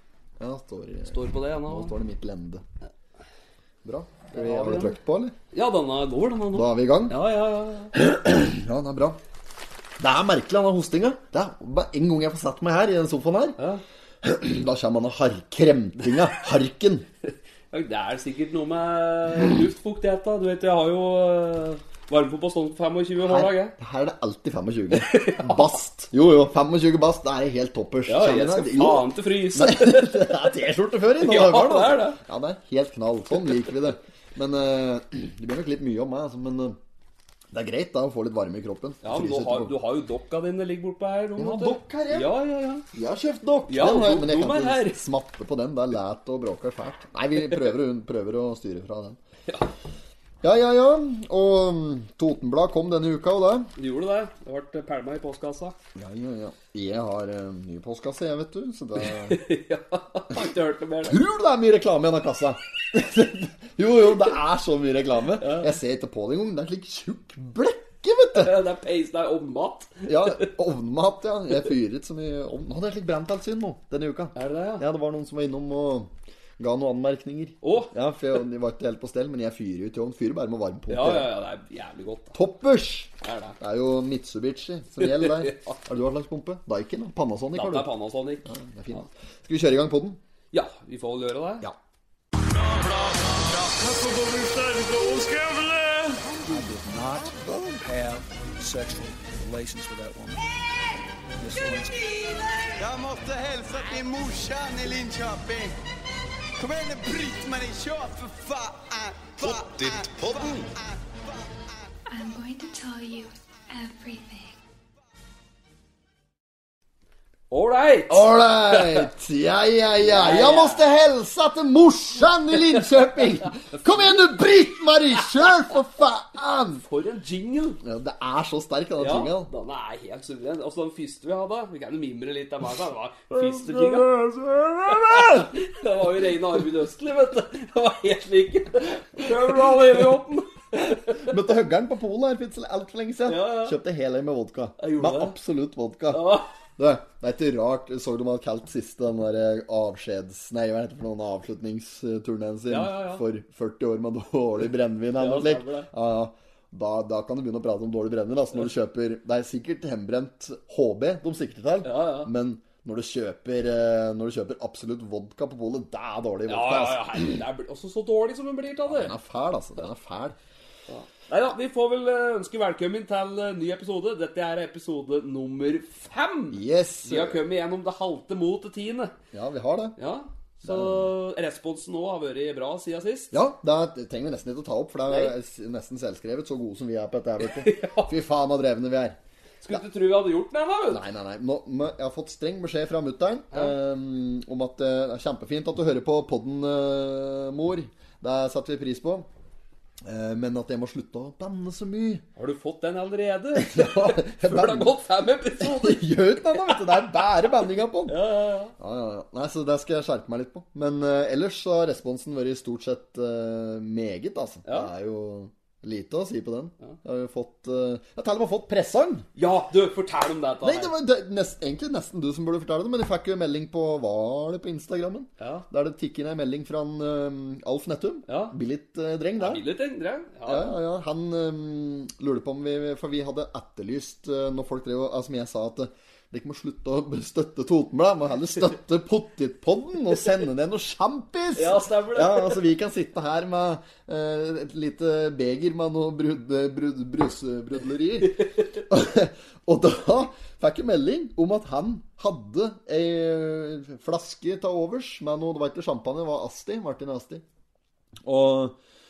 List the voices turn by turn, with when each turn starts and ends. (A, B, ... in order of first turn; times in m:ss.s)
0:00.4-0:02.6 A
0:01.0-0:01.9 B
0:03.8-0:05.3 A
0:04.3-0:05.0 B
0:05.5-0:08.0 B
0:06.5-0:07.1 A
0:07.9-0:09.2 A
0:10.0-0:13.6 A
0:13.6-0:13.8 B
0:14.2-0:17.0 A
0:17.7-0:23.7 B
0:23.2-0:36.8 A
0:24.9-0:25.7 B
0:28.1-0:30.6 B
0:31.2-0:32.2 B
0:37.5-0:39.7 A
0:39.0-0:42.8 B
0:41.4-0:42.3 A
0:42.9-0:49.2 A
0:43.7-0:45.0 B
0:50.4-0:53.7 A
0:53.8-0:55.8 B
0:56.0-0:59.4 A
0:59.0-1:01.2 B
1:01.0-1:08.6 A
1:05.4-1:05.7 B
1:08.3-1:10.5 B
1:10.0-1:21.3 A
1:14.3-1:14.8 B
1:17.6-1:17.9 B
1:20.9-1:22.4 B
1:22.3-1:27.9 A
1:23.2-1:23.6 B
1:25.0-1:25.8 B
1:27.5-1:29.0 B
1:28.4-1:30.2 A
1:30.5-1:31.7 B
1:32.3-1:40.4 C
1:36.2-1:37.8 A
1:41.4-1:42.1 C
1:42.8-1:45.7 D
1:46.6-1:51.6 D
1:52.1-1:54.6 E
1:57.5-1:59.1 B
1:58.1-2:06.8 A
2:00.0-2:00.9 B
2:03.5-2:04.1 B
2:06.8-2:07.8 B
2:07.8-2:09.5 A
2:09.0-2:14.1 B
2:13.3-2:15.6 A
2:14.9-2:21.3 B
2:21.2-2:47.4 A
2:23.2-2:23.8 B
2:24.8-2:25.4 B
2:26.1-2:26.5 B
2:32.7-2:33.2 B
2:35.2-2:35.9 B
2:41.8-2:42.3 B
2:46.5-2:49.1 B
2:48.9-2:50.4 A
2:50.9-2:59.1 B
2:56.5-2:57.4 A
2:59.3-3:00.0 A
3:00.0-3:03.3 B
3:00.6-3:01.1 A
3:03.3-3:09.2 A
3:05.1-3:05.3 B
3:07.4-3:08.1 B
3:09.6-3:11.0 B
3:10.9-3:19.3 A
3:20.0-3:22.2 A
3:22.4-3:26.2 B
3:23.5-3:25.0 A
3:25.6-3:28.2 A
3:28.1-3:28.7 B
3:28.8-3:39.2 A
3:34.6-3:34.9 B
3:39.4-3:40.9 B
3:40.6-3:49.6 A
3:45.4-3:45.6 B
3:48.3-3:48.6 B
3:49.4-3:50.7 B
3:50.4-4:17.4 A
4:01.5-4:02.6 B
4:08.2-4:08.7 B
4:18.2-4:18.8 A